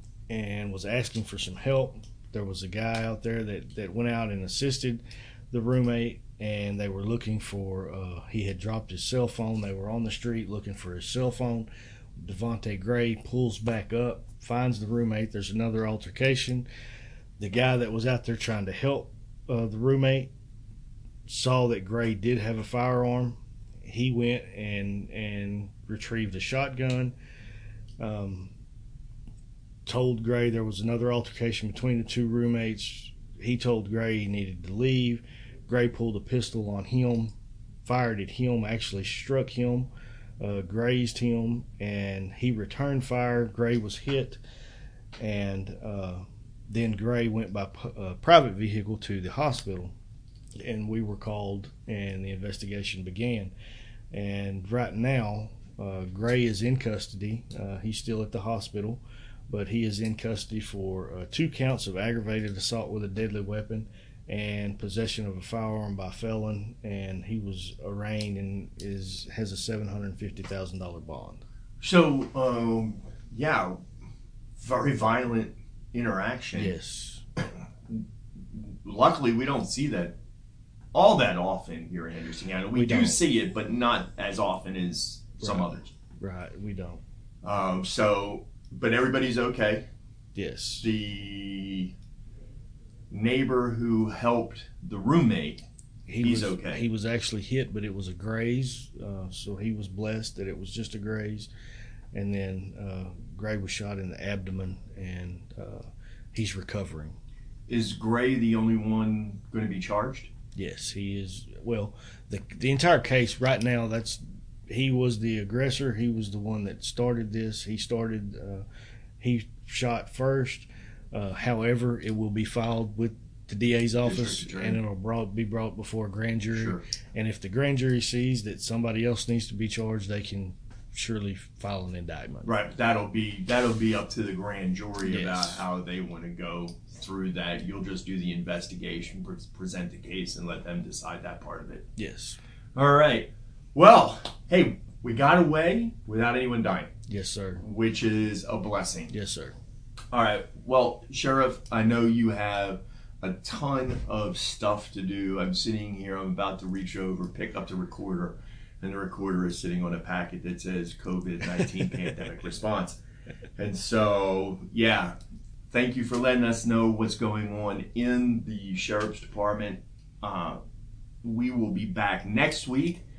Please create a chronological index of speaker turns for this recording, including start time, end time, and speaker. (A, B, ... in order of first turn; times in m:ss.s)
0:00.3-0:16.7 A
0:17.4-0:20.3 A
0:21.3-0:27.1 A
0:28.0-0:28.5 A
0:29.8-0:37.3 A
0:37.8-0:44.4 A
0:45.2-0:49.9 A
0:50.6-0:53.5 A
0:54.1-1:11.4 A
1:11.8-1:13.8 B
1:14.6-1:16.7 B
1:16.5-1:17.2 A
1:18.5-1:20.2 B
1:20.9-1:25.9 B
1:22.7-1:23.2 A
1:25.4-1:27.0 A
1:27.4-1:29.9 B
1:30.3-1:30.9 A
1:30.8-1:31.9 B
1:33.1-1:35.6 B
1:36.1-1:41.5 A
1:36.2-1:36.8 B
1:42.1-1:47.2 A
1:47.7-1:50.3 B
1:50.6-1:58.6 A
1:59.2-2:12.5 A
2:04.0-2:04.8 B
2:06.5-2:06.8 B
2:12.4-2:21.8 B
2:15.0-2:15.6 A
2:22.0-2:22.4 A
2:22.7-2:26.9 B
2:27.1-2:27.6 A
2:27.6-2:29.1 B
2:29.1-2:29.6 A
2:30.1-2:43.0 B
2:43.6-2:45.2 B
2:45.7-2:50.6 B
2:51.2-2:53.0 B